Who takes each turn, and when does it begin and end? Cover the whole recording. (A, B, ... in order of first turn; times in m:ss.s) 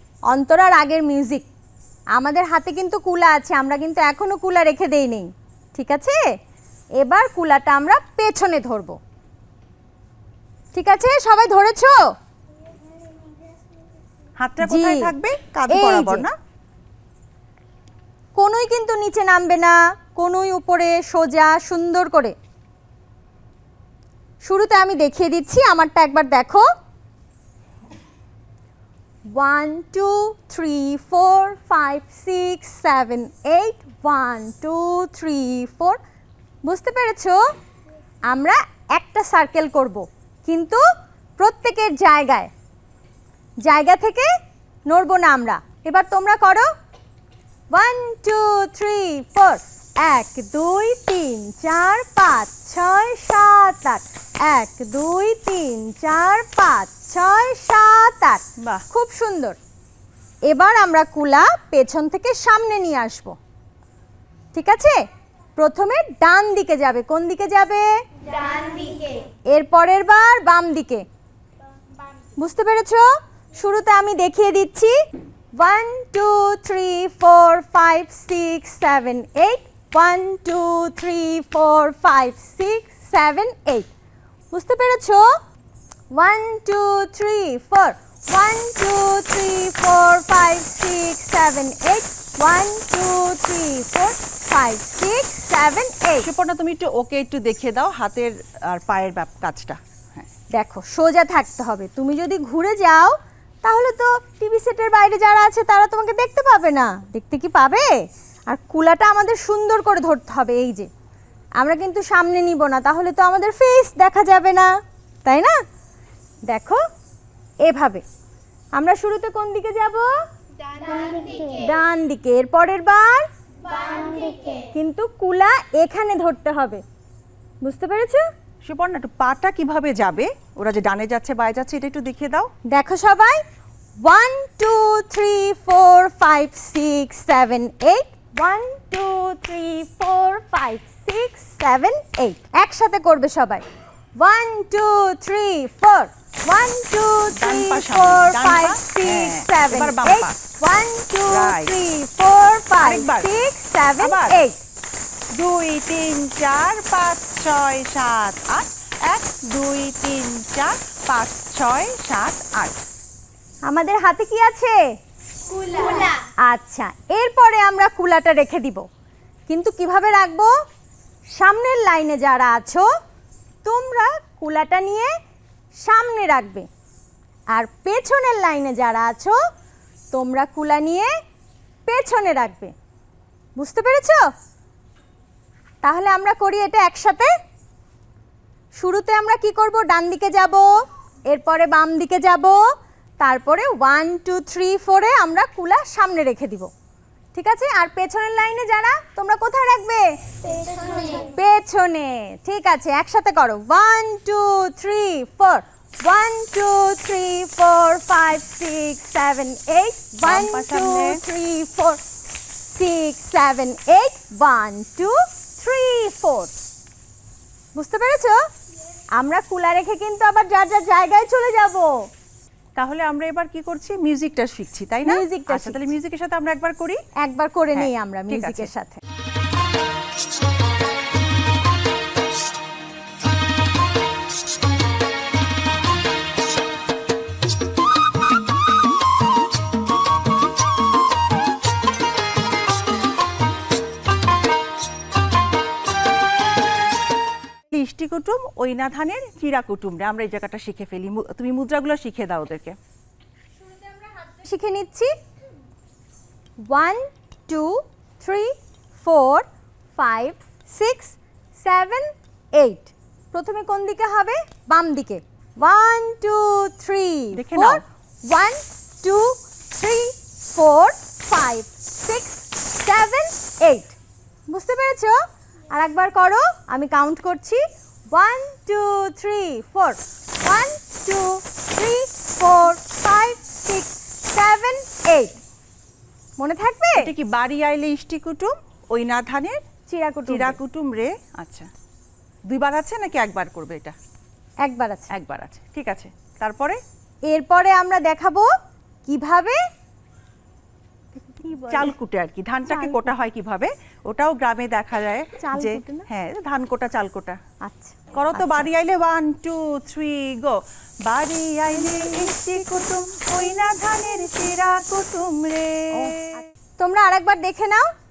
0:00.3-0:01.5 A
0:02.1-0:06.2 A
0:07.0-0:09.0 A
0:10.7-0:12.0 A
0:14.4-0:16.3 B
0:14.6-0:15.1 A
0:15.7-0:16.2 A
0:18.4-0:22.4 A
0:24.4-0:26.6 A
0:29.3-0:36.0 A
0:36.6-0:37.4 A
0:38.3-0:40.8 A
0:41.4-0:42.5 A
0:43.6-0:44.3 A
0:44.9-0:46.7 A
0:47.7-0:59.6 A
0:58.6-0:58.8 B
1:00.5-1:03.4 A
1:04.5-1:05.0 A
1:05.6-1:07.9 A
1:08.4-1:09.1 C
1:09.5-1:11.0 A
1:12.4-1:13.0 A
1:13.6-1:14.9 A
1:15.6-1:23.9 A
1:24.5-1:25.2 A
1:26.1-1:36.3 A
1:36.2-1:40.3 B
1:40.5-1:47.9 A
1:48.5-1:50.9 A
1:51.6-1:54.7 A
1:55.2-1:55.6 A
1:56.5-1:56.8 A
1:57.6-1:58.0 A
1:58.8-2:00.1 A
2:00.6-2:01.6 C
2:01.5-2:03.3 A
2:03.7-2:04.4 C
2:04.7-2:06.8 A
2:07.6-2:08.2 A
2:08.6-2:12.5 B
2:12.7-2:13.4 A
2:14.0-2:23.6 A
2:24.2-2:34.6 A
2:27.4-2:30.4 B
2:31.3-2:31.7 B
2:32.8-2:33.3 B
2:34.0-2:34.4 B
2:35.3-2:42.8 B
2:43.7-2:44.8 A
2:46.4-2:48.9 A
2:49.5-2:50.5 A
2:51.4-2:52.8 A
2:53.6-2:55.1 A
2:55.8-2:56.7 A
2:57.5-2:59.4 A
3:00.1-3:01.1 A
3:01.9-3:02.7 A
3:03.6-3:04.2 A
3:05.8-3:07.3 A
3:08.8-3:10.7 A
3:11.3-3:12.6 A
3:13.2-3:16.7 A
3:17.3-3:20.1 A
3:21.0-3:32.0 A
3:30.2-3:31.2 B
3:32.5-3:36.6 A
3:37.8-3:38.4 A
3:39.2-3:41.9 A
3:42.8-3:47.0 B
3:45.0-3:45.9 A
3:47.2-3:49.0 A
3:47.7-3:48.7 B
4:07.7-4:12.8 B
4:13.6-4:15.1 A
4:16.7-4:33.9 A
4:27.3-4:27.8 B
4:34.5-4:35.2 A
4:35.7-4:45.4 A
4:46.4-4:47.1 A
4:47.0-4:49.6 B
4:49.9-4:50.6 A
4:50.3-4:51.7 B
4:52.5-4:53.9 B
4:54.6-4:55.1 A
4:55.1-4:56.8 B
4:57.3-4:58.5 A
4:59.1-4:59.6 A
5:01.2-5:01.9 A
5:01.7-5:07.4 B
5:02.7-5:03.1 A
5:05.4-5:06.1 A
5:07.6-5:08.7 A
5:08.1-5:16.4 B
5:15.9-5:17.9 A